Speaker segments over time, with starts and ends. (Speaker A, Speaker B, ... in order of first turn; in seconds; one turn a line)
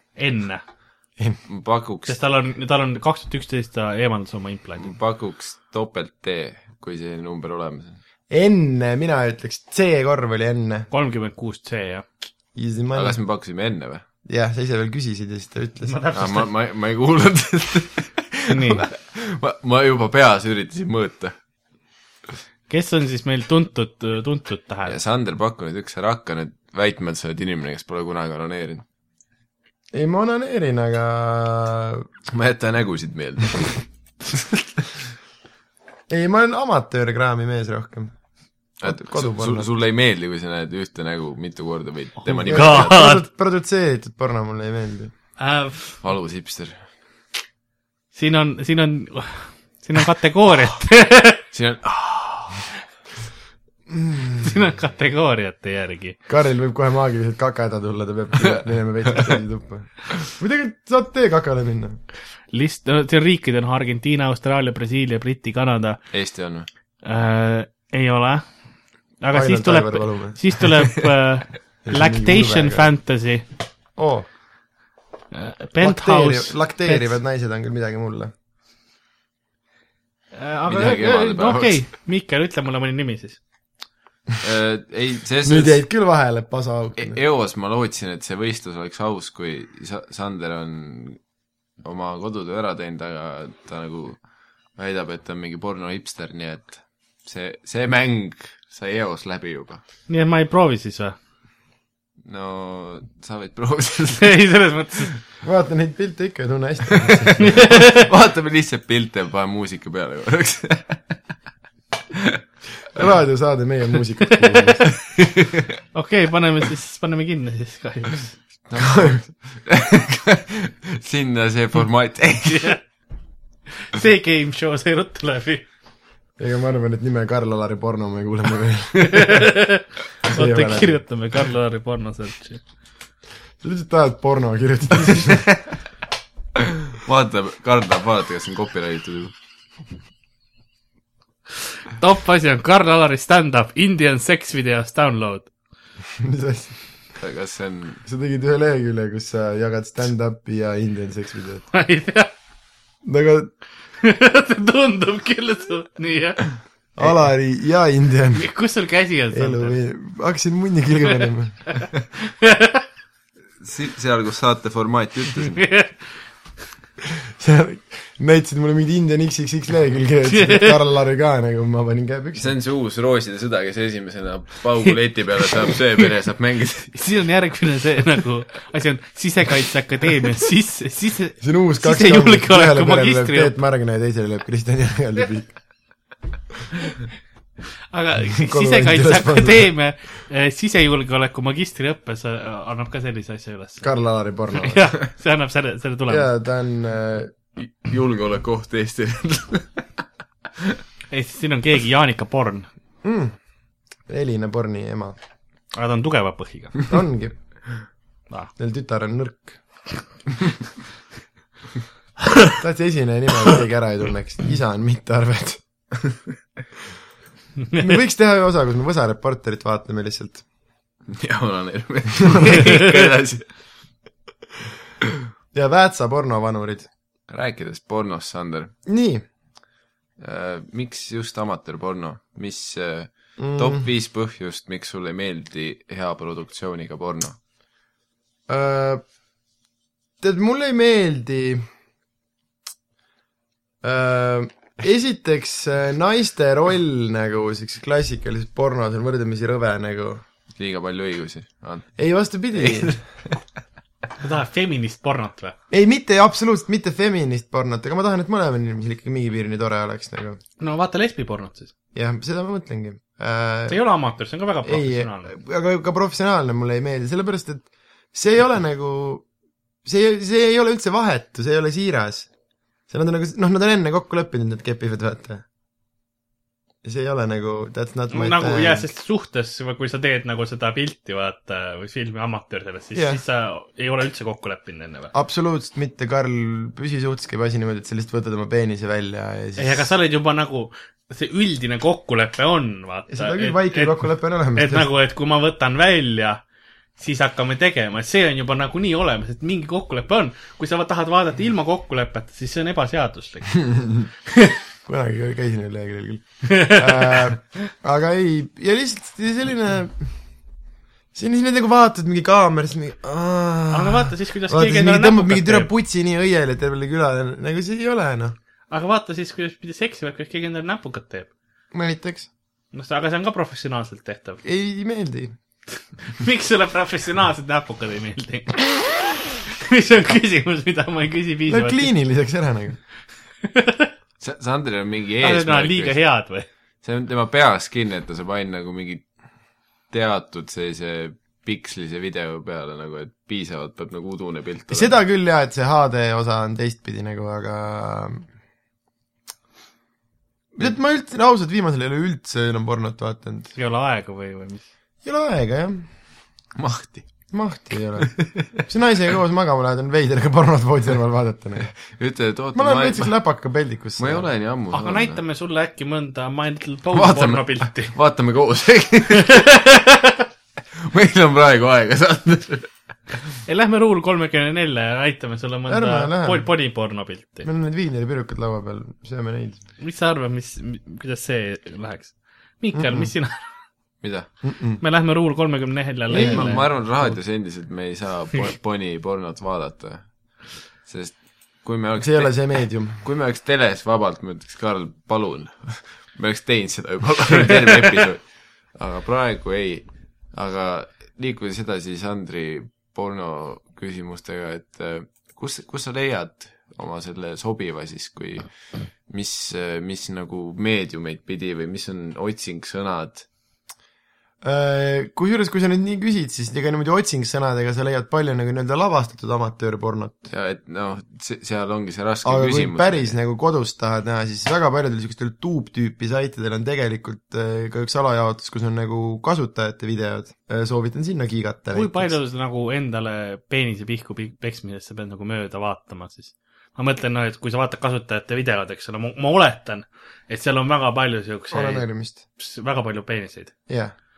Speaker A: 0.1-0.6
Speaker B: 1.5-2.2
Speaker A: 2.1-4.9
Speaker B: 4.8-8.0
Speaker C: 8.3-10.9
Speaker A: 10.9-12.1
Speaker C: 12.6-13.2
Speaker B: 12.9-14.0
Speaker C: 14.2-16.0
Speaker A: 15.9-16.5
Speaker B: 16.1-21.3
Speaker A: 18.5-18.8
Speaker A: 22.7-24.9
Speaker B: 24.9-28.8
Speaker C: 29.9-32.1
Speaker B: 32.3-34.9
Speaker C: 36.1-38.1
Speaker B: 38.8-43.1
Speaker C: 38.8-39.7
Speaker C: 42.3-45.1
Speaker A: 42.5-43.2
Speaker A: 45.4-46.0
Speaker B: 46.0-46.8
Speaker A: 48.1-51.4
Speaker B: 51.5-52.6
Speaker C: 53.9-54.5
Speaker A: 54.4-56.2
Speaker C: 56.3-62.0
Speaker A: 62.5-66.0
Speaker B: 66.1-66.7
Speaker A: 67.0-68.4
Speaker A: 69.2-73.5
Speaker C: 69.3-70.4
Speaker C: 71.8-72.9
Speaker C: 74.0-74.3
Speaker A: 75.3-77.1
Speaker C: 75.8-78.3
Speaker A: 80.3-83.4
Speaker B: 80.7-81.8
Speaker B: 84.4-85.8
Speaker C: 85.4-87.2
Speaker B: 87.0-91.2
Speaker B: 91.8-94.2
Speaker B: 94.8-99.8
Speaker A: 100.1-101.2
Speaker B: 102.2-104.4
Speaker A: 104.2-105.1
Speaker C: 105.4-107.5
Speaker B: 106.9-111.0
Speaker A: 107.4-108.1
Speaker B: 112.1-112.4
Speaker C: 112.9-114.9
Speaker B: 115.1-115.7
Speaker A: 115.9-118.3
Speaker B: 118.7-122.8
Speaker C: 118.8-119.2
Speaker A: 122.5-122.8
Speaker A: 123.9-125.6
Speaker C: 126.4-129.4
Speaker A: 129.0-132.6
Speaker C: 130.3-131.0
Speaker C: 133.6-135.5
Speaker B: 136.9-139.3
Speaker A: 141.9-145.5
Speaker C: 146.2-146.8
Speaker B: 147.2-148.0
Speaker C: 148.0-151.6
Speaker A: 151.7-152.3
Speaker C: 153.0-153.5
Speaker A: 154.0-156.5
Speaker C: 156.9-158.5
Speaker A: 158.3-159.7
Speaker C: 159.3-161.6
Speaker A: 161.7-162.8
Speaker B: 163.6-165.6
Speaker A: 165.4-166.1
Speaker C: 167.4-172.5
Speaker A: 170.3-170.8
Speaker B: 172.3-176.9
Speaker A: 176.9-183.5
Speaker C: 181.4-185.5
Speaker A: 187.9-193.8
Speaker C: 188.3-189.7
Speaker C: 193.8-194.9
Speaker A: 194.6-196.3
Speaker C: 196.1-197.3
Speaker B: 197.6-199.8
Speaker A: 201.1-202.7
Speaker C: 203.0-203.3
Speaker C: 204.1-205.2
Speaker A: 205.7-206.9
Speaker C: 206.9-207.3
Speaker C: 208.6-209.6
Speaker C: 212.6-215.6
Speaker A: 217.7-217.9
Speaker C: 217.8-220.4
Speaker B: 221.1-223.5
Speaker C: 225.5-226.9
Speaker B: 227.3-228.7
Speaker C: 228.8-229.2
Speaker B: 230.2-237.4
Speaker C: 233.4-233.8
Speaker C: 238.5-239.0
Speaker C: 240.2-241.7
Speaker C: 243.8-250.2
Speaker B: 250.6-252.0
Speaker C: 252.0-253.0
Speaker B: 252.5-253.4
Speaker A: 254.2-255.6
Speaker C: 255.7-260.4
Speaker A: 260.6-261.7
Speaker C: 261.9-263.8
Speaker A: 263.7-265.3
Speaker C: 264.6-269.2
Speaker C: 269.8-272.3
Speaker C: 272.9-275.4
Speaker C: 276.8-278.8
Speaker A: 278.1-285.1
Speaker C: 282.9-283.2
Speaker C: 285.1-289.9
Speaker A: 289.6-294.0
Speaker C: 293.1-294.9
Speaker A: 294.6-296.4
Speaker A: 297.0-304.5
Speaker C: 304.9-310.1
Speaker A: 306.4-307.2
Speaker C: 311.1-318.4
Speaker A: 313.7-315.7
Speaker A: 318.7-321.3
Speaker C: 321.7-322.3
Speaker A: 322.7-324.4
Speaker C: 324.4-325.3
Speaker A: 326.1-331.9
Speaker C: 331.5-332.8
Speaker A: 333.4-333.9
Speaker B: 334.2-336.0
Speaker A: 335.2-336.5
Speaker B: 336.8-339.1
Speaker B: 339.9-344.9
Speaker C: 344.7-348.3
Speaker C: 350.5-353.5
Speaker A: 353.5-354.6
Speaker C: 355.0-355.9
Speaker B: 356.6-357.0
Speaker C: 357.3-361.7
Speaker B: 358.0-358.6
Speaker B: 361.9-363.1
Speaker C: 362.5-364.3
Speaker B: 364.0-365.2
Speaker A: 364.7-367.9
Speaker B: 366.9-369.5
Speaker A: 369.2-370.2
Speaker B: 370.8-372.7
Speaker A: 373.4-377.5
Speaker C: 375.7-376.5
Speaker C: 377.4-379.6
Speaker A: 379.8-383.4
Speaker C: 382.7-383.1
Speaker B: 384.0-384.3
Speaker C: 384.4-384.8
Speaker A: 384.8-386.7
Speaker C: 386.1-387.2
Speaker B: 386.1-398.2
Speaker C: 392.0-393.0
Speaker B: 398.7-408.5
Speaker B: 409.1-413.2
Speaker C: 414.4-420.3
Speaker B: 420.3-423.1
Speaker C: 422.2-432.1
Speaker A: 431.7-441.9
Speaker C: 441.5-442.2
Speaker A: 442.4-443.5
Speaker C: 443.7-443.9